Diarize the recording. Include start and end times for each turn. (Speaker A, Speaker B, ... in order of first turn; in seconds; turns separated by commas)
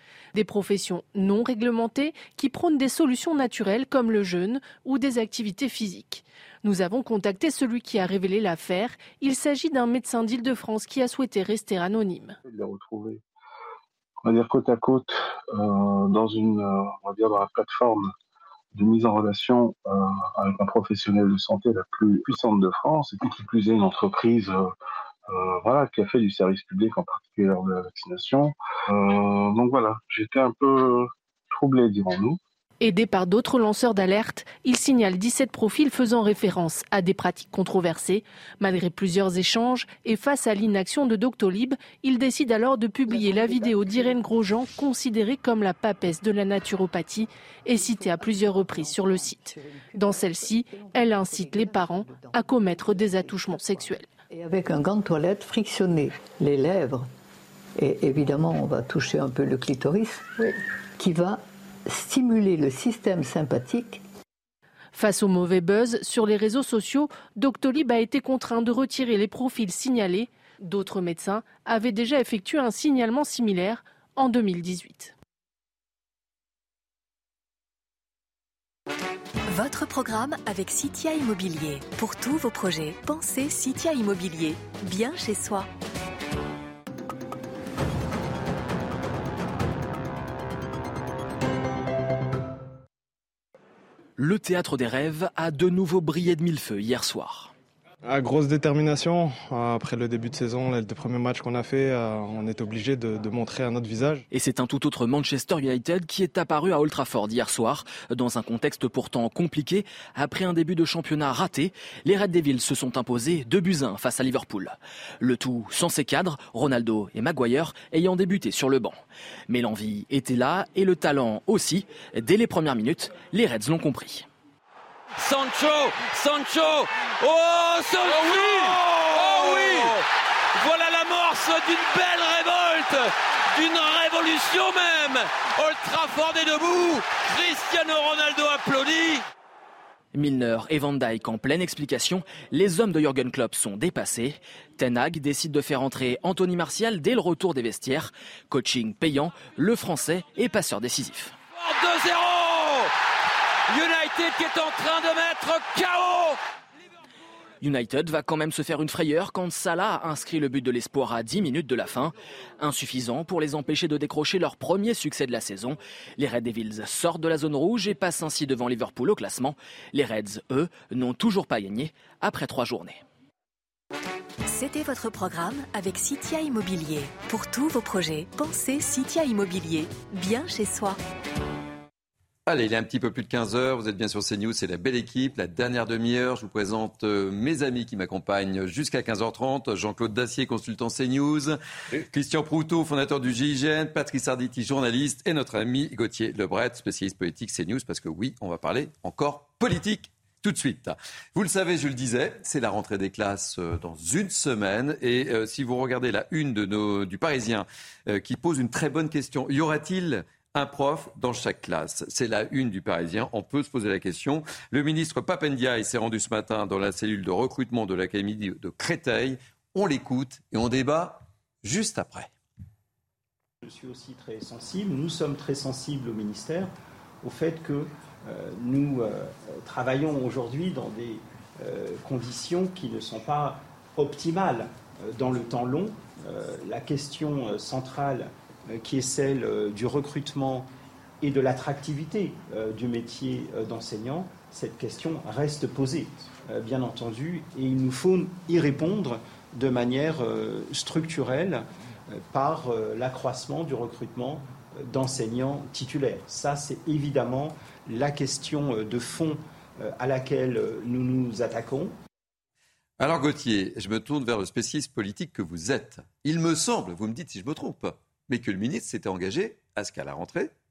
Speaker A: 0.3-12.4, Speaker B: 12.4-13.2, Speaker B: 14.2-18.1, Speaker B: 18.7-24.7, Speaker B: 25.3-32.4, Speaker A: 32.8-54.1, Speaker C: 43.1-44.2, Speaker C: 47.7-57.1, Speaker C: 57.8-64.0, Speaker A: 64.9-75.1, Speaker D: 79.5-85.7, Speaker E: 94.2-97.5, Speaker F: 98.1-104.2, Speaker E: 104.3-124.2, Speaker G: 125.2-130.0, Speaker G: 130.5-139.2, Speaker E: 140.1-151.3, Speaker G: 151.6-152.9, Speaker G: 153.7-156.4, Speaker E: 157.6-173.0, Speaker D: 174.5-181.0, Speaker H: 182.5-191.6, Speaker H: 192.1-222.3, Speaker I: 223.6-240.7, Speaker I: 241.2-261.9, Speaker H: 263.0-270.5